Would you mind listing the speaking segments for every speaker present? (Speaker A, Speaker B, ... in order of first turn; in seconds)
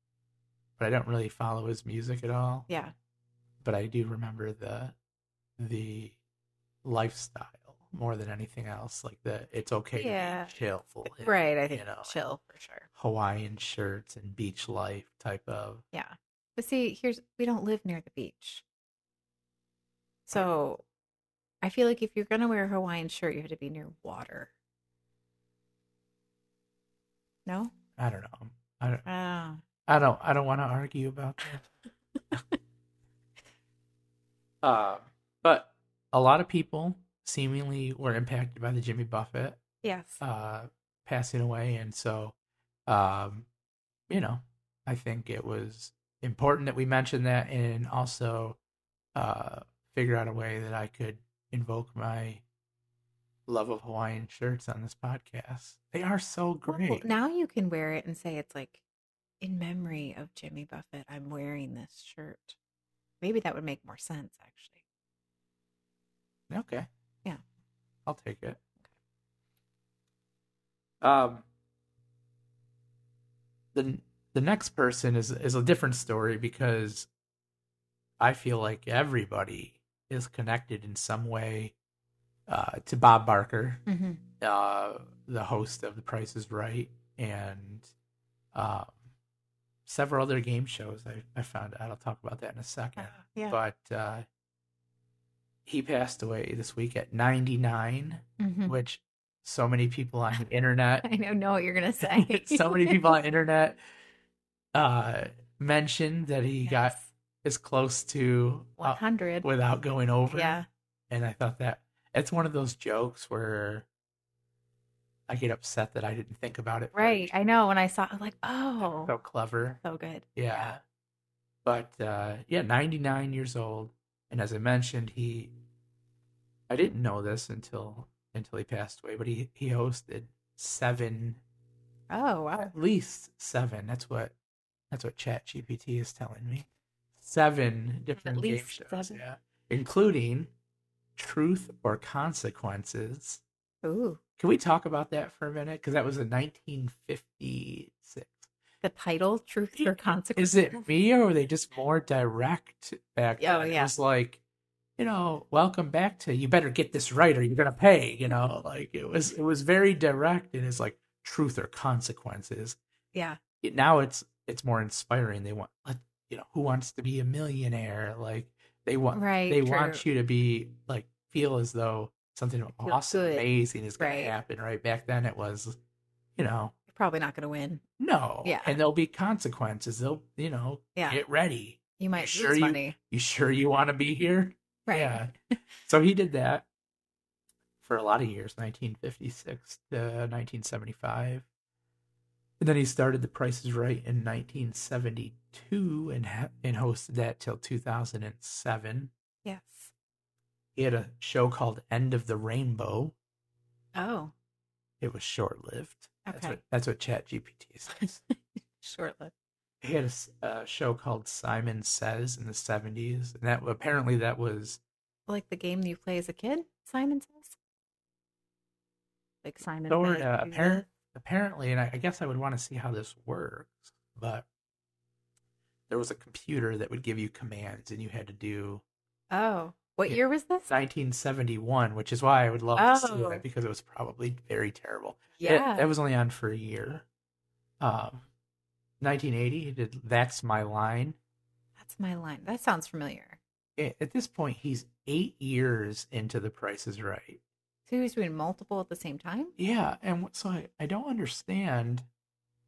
Speaker A: 0.8-2.7, 3.6-5.0, 5.6-6.2, 6.8-12.2, 13.0-15.8, 28.0-29.1, 29.9-31.7, 34.6-39.6, 40.2-42.4, 42.9-43.5, 44.1-48.6, 49.1-52.4, 53.5-57.1, 66.5-66.9, 68.1-68.6, 71.0-71.5, 73.7-77.1, 78.2-81.7, 82.5-83.8, 84.4-87.9, 88.5-89.0, 89.9-94.3, 95.7-101.1, 102.0-103.8, 104.7-113.9, 115.3-117.3, 118.8-119.8, 120.4-120.8, 121.7-125.5, 126.7-131.4, 132.6-134.3, 134.9-140.5, 141.2-143.4, 144.4-148.5, 149.8-154.4, 155.0-162.8, 163.6-175.8, 176.4-176.7, 178.0-186.7, 187.8-191.4, 192.6-199.1, 200.8-203.2, 205.0-208.2, 209.8-214.8, 219.9-224.5, 225.9-228.8, 230.1-237.1, 237.8-238.3, 239.0-241.2, 243.8-247.4, 249.6-252.1
Speaker B: 2.7-2.9, 10.0-10.5, 11.1-12.9, 15.9-18.6, 20.3-20.9, 21.6-24.5, 27.5-27.7, 29.1-29.6, 39.8-40.2, 56.7-58.8, 59.4-62.6, 63.2-64.8, 83.9-84.2, 93.0-93.6, 98.4-98.8, 101.0-103.0, 106.7-107.1, 108.8-109.5, 110.3-110.7, 116.9-119.1, 119.8-120.8, 132.1-132.7, 138.2-139.2, 143.8-144.2, 148.8-150.8, 153.4-153.9, 163.1-163.4, 169.1-170.0, 172.8-173.4, 174.0-174.3, 176.9-177.8, 178.4-178.8, 181.0-181.2, 182.0-183.0, 184.9-185.6, 199.4-199.9, 203.9-204.3, 206.3-206.6, 208.8-209.3, 215.3-217.6, 219.4-220.8, 229.3-230.7, 232.8-233.4, 235.4-235.9, 241.8-243.4, 247.9-249.5